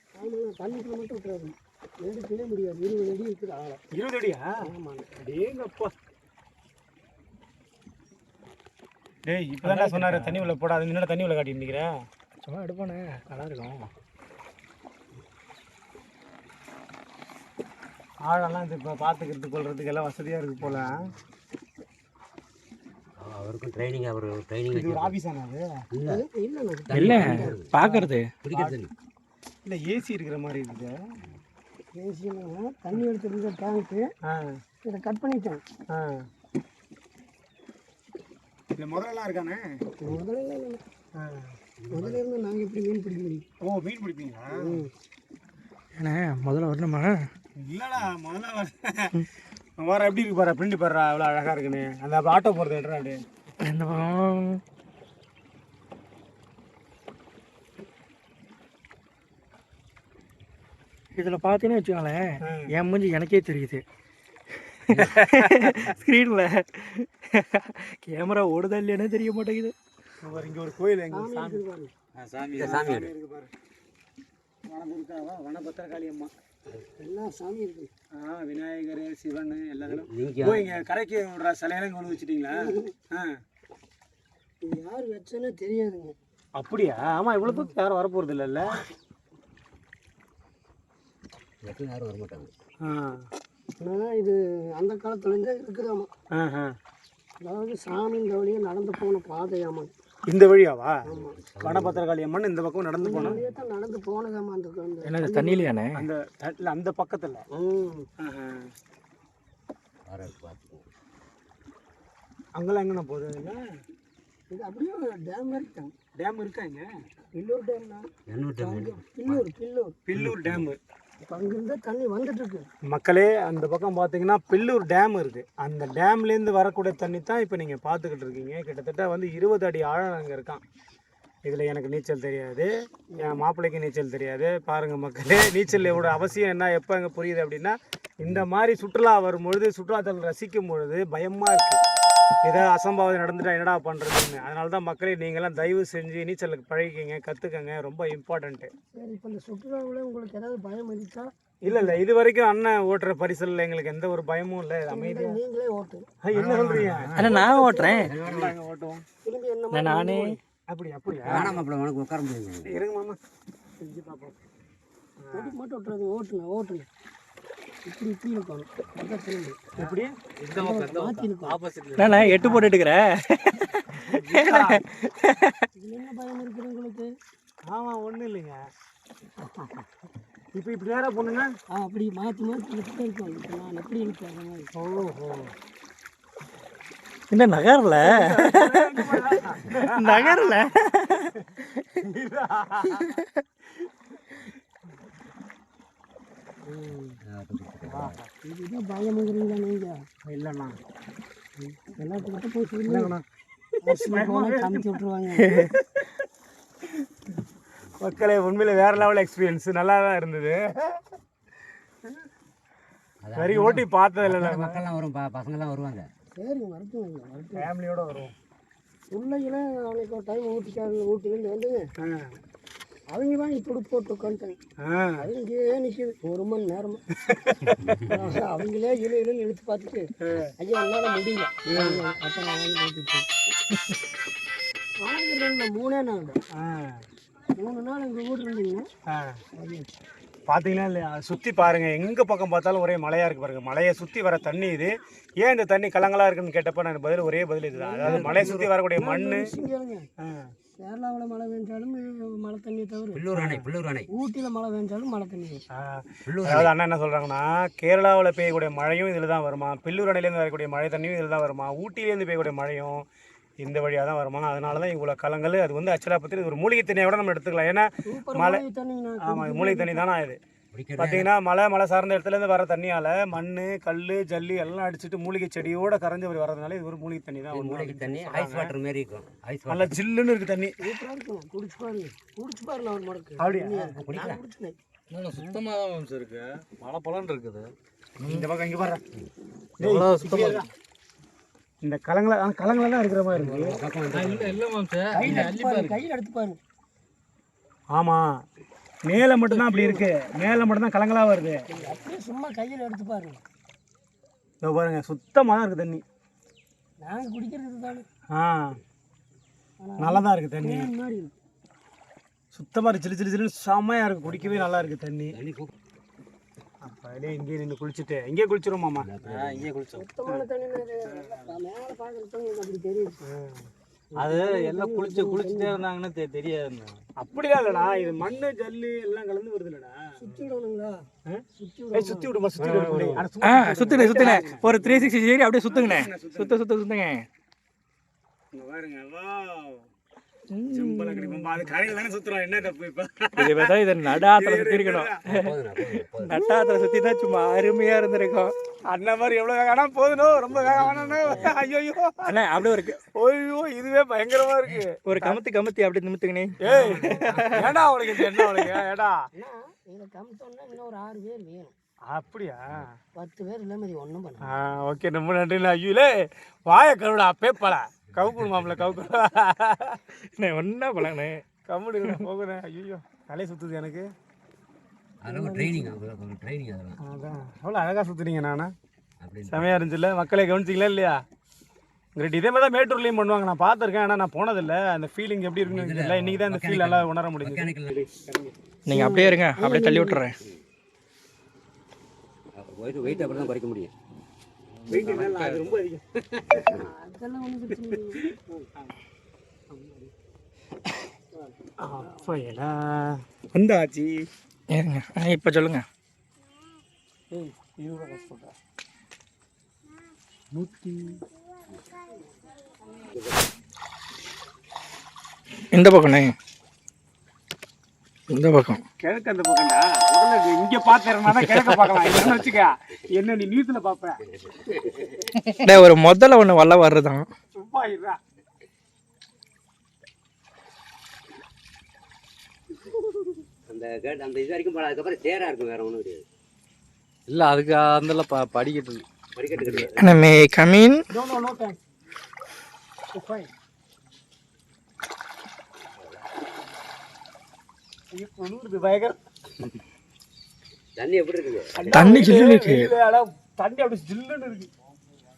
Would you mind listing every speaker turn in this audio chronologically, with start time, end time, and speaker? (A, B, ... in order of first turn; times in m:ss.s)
0:00.2-0:03.8 A
0:03.9-0:04.5 B
0:04.6-0:05.1 A
0:05.2-0:05.9 B
0:09.2-0:12.0 B
0:09.6-0:10.5 C
0:12.4-0:13.9 C
0:18.2-0:21.1 B
0:20.6-0:21.1 D
0:23.2-0:25.1 D
0:24.7-0:25.6 B
0:25.9-0:26.2 D
0:26.1-0:27.6 A
0:26.8-0:27.7 D
0:26.9-0:28.3 C
0:27.8-0:28.7 B
0:28.4-0:28.9 D
0:29.6-0:31.0 B
0:31.9-0:34.1 A
0:34.2-0:34.6 B
0:34.8-0:35.6 A
0:35.9-0:36.2 B
0:38.8-0:39.7 B
0:40.0-0:40.8 A
0:41.2-0:41.5 B
0:41.8-0:42.2 D
0:41.9-0:43.4 A
0:43.6-0:44.9 B
0:44.5-0:44.9 A
0:46.0-0:47.3 C
0:47.6-0:49.2 B
0:49.8-0:53.2 B
0:53.6-0:54.6 C
1:01.2-1:03.8 C
1:02.4-1:02.7 B
1:04.7-1:09.7 C
1:05.0-1:06.0 B
1:10.2-1:11.6 B
1:11.1-1:11.9 A
1:12.4-1:13.5 B
1:12.5-1:13.1 D
1:14.7-1:16.3 B
1:17.0-1:17.9 A
1:18.1-1:23.4 B
1:19.8-1:20.8 D
1:22.5-1:22.9 A
1:24.6-1:26.2 A
1:26.6-1:28.8 B
1:27.4-1:27.7 A
1:31.6-1:32.5 D
1:32.8-1:33.2 B
1:33.8-1:36.1 A
1:36.3-1:36.7 B
1:37.4-1:39.9 A
1:40.3-1:41.0 B
1:41.0-1:41.4 A
1:41.1-1:42.0 D
1:41.6-1:43.4 B
1:43.0-1:45.7 A
1:43.1-1:43.6 D
1:45.0-1:46.0 C
1:45.9-1:47.4 B
1:47.5-1:48.1 A
1:48.2-1:48.7 B
1:50.0-1:50.9 D
1:52.6-1:53.6 B
1:54.5-1:55.9 A
1:56.2-1:56.9 B
1:57.4-2:00.0 A
1:58.3-1:59.5 D
2:00.1-2:00.8 B
2:00.1-2:00.6 D
2:01.3-2:02.7 A
2:02.8-2:10.6 B
2:11.4-2:21.8 B
2:13.1-2:13.4 A
2:22.4-2:28.7 B
2:28.9-2:32.0 A
2:31.6-2:35.4 B
2:34.9-2:36.1 A
2:36.2-2:39.0 B
2:36.3-2:37.4 D
2:37.2-2:38.1 C
2:37.3-2:37.9 A
2:38.0-2:38.5 D
2:39.2-2:40.4 A
2:39.7-2:40.3 C
2:40.7-2:41.6 B
2:41.2-2:42.7 D
2:42.6-2:43.2 B
2:43.8-2:44.3 A
2:45.2-2:45.6 B
2:45.3-2:46.9 A
2:47.8-2:49.6 A
2:49.8-2:50.2 B
2:50.4-2:52.7 E
2:50.5-2:51.6 A
2:52.0-2:55.6 C
2:53.9-2:54.8 B
2:55.8-2:57.1 A
2:57.7-2:58.6 B
2:59.4-2:59.7 A
3:00.6-3:01.5 B
3:01.7-3:04.7 A
3:04.7-3:05.5 B
3:07.3-3:09.2 C
3:08.0-3:10.6 B
3:09.8-3:11.3 C
3:11.4-3:13.2 B
3:17.2-3:18.2 D
3:17.9-3:18.3 B
3:18.4-3:20.0 A
3:20.2-3:20.8 B
3:21.9-3:23.1 A
3:22.8-3:25.0 B
3:23.8-3:25.7 A
3:25.7-3:26.1 B
3:28.0-3:31.0 B
3:33.2-3:36.1 D
3:33.3-3:34.8 B
3:36.4-3:37.7 A
3:37.6-3:38.3 B
3:39.1-3:41.9 A
3:42.0-3:42.4 B
3:43.1-3:44.6 A
3:44.8-3:45.3 B
3:45.2-3:47.0 A
3:47.2-3:48.1 B
3:48.0-3:53.3 A
3:50.2-3:50.5 B
3:51.6-3:52.0 B
3:55.0-3:56.4 A
3:56.5-3:57.0 B
3:57.6-3:58.9 A
3:59.1-3:59.4 B
3:59.6-3:59.9 A
4:00.5-4:09.5 B
4:07.8-4:10.1 A
4:08.0-4:08.7 D
4:10.2-4:10.5 B
4:10.8-4:13.2 A
4:13.1-4:14.1 D
4:13.3-4:13.6 B
4:14.1-4:15.6 A
4:15.7-4:23.0 B
4:16.2-4:16.7 D
4:23.6-4:28.6 B
4:28.0-4:30.0 A
4:29.2-4:30.4 B
4:30.7-4:31.3 D
4:31.0-4:38.7 B
4:37.5-4:39.9 D
4:39.7-4:40.8 B
4:40.8-4:44.8 A
4:43.4-4:43.9 B
4:44.0-4:44.4 D
4:45.1-4:48.5 E
4:48.2-4:49.0 B
4:49.8-4:50.7 B
4:49.8-4:50.7 E
4:51.8-4:53.8 B
4:53.3-4:54.6 D
4:54.1-4:56.0 E
4:55.1-4:56.6 A
4:55.2-4:55.5 D
4:57.9-4:58.4 B
4:59.0-5:01.6 B
4:59.5-5:00.0 E
5:01.7-5:03.4 A
5:04.6-5:06.0 B
5:07.0-5:08.1 A
5:08.3-5:08.8 B
5:09.8-5:11.3 A
5:10.0-5:10.9 B
5:12.5-5:15.4 B
5:14.2-5:15.7 D
5:16.8-5:19.1 B
5:19.0-5:19.7 D
5:19.2-5:20.1 E
5:19.9-5:23.2 A
5:21.1-5:21.4 B
5:23.2-5:23.7 B
5:24.1-5:25.8 A
5:24.2-5:27.0 E
5:27.2-5:30.1 B
5:27.7-5:28.1 A
5:30.2-5:31.1 A
5:31.2-5:35.1 B
5:31.6-5:32.4 A
5:32.7-5:33.2 E
5:33.4-5:37.2 C
5:33.9-5:34.9 A
5:35.7-5:36.6 B
5:38.5-5:39.8 B
5:40.5-5:41.6 C
5:40.7-5:45.2 B
5:43.4-5:45.5 C
5:45.3-5:46.4 D
5:46.2-5:48.5 C
5:48.9-5:52.3 B
5:50.3-5:51.6 D
5:52.2-5:53.0 C
5:53.2-5:55.4 B
5:55.0-5:57.6 C
5:56.6-5:59.2 B
5:56.7-5:57.3 A
5:56.7-5:57.9 D
5:58.3-5:58.6 C
5:59.4-6:01.7 A
6:02.1-6:02.9 B
6:03.1-6:04.5 A
6:04.4-6:10.0 B
6:10.2-6:11.4 C
6:11.7-6:14.1 B
6:15.2-6:17.0 D
6:15.2-6:16.0 A
6:17.0-6:18.7 B
6:19.2-6:19.8 D
6:19.5-6:21.2 B
6:22.2-6:28.5 B
6:25.6-6:27.9 D
6:28.9-6:30.4 C
6:28.9-6:30.2 A
6:32.6-6:33.9 D
6:33.1-6:33.5 A
6:34.9-6:36.7 B
6:34.9-6:35.8 D
6:34.9-6:35.4 E
6:36.5-6:36.9 D
6:36.7-6:38.4 A
6:38.2-6:38.9 B
6:39.7-6:40.1 B
6:41.3-6:42.4 A
6:41.8-6:44.3 B
6:44.7-6:45.8 C
6:47.3-6:48.5 B
6:50.6-6:50.9 B
6:53.1-6:53.4 D
6:55.7-6:56.3 C
6:58.3-6:58.8 C
6:59.0-7:04.2 B
7:01.4-7:02.0 C
7:04.3-7:05.4 D
7:05.5-7:07.3 C
7:07.6-7:08.2 B
7:13.7-7:16.2 D
7:17.3-7:19.9 E
7:19.4-7:20.2 D
7:20.0-7:21.0 C
7:21.1-7:21.8 B
7:23.1-7:23.5 B
7:26.0-7:26.2 D
7:28.1-7:29.2 B
7:31.0-7:31.9 D
7:31.7-7:34.7 B
7:31.9-7:32.9 C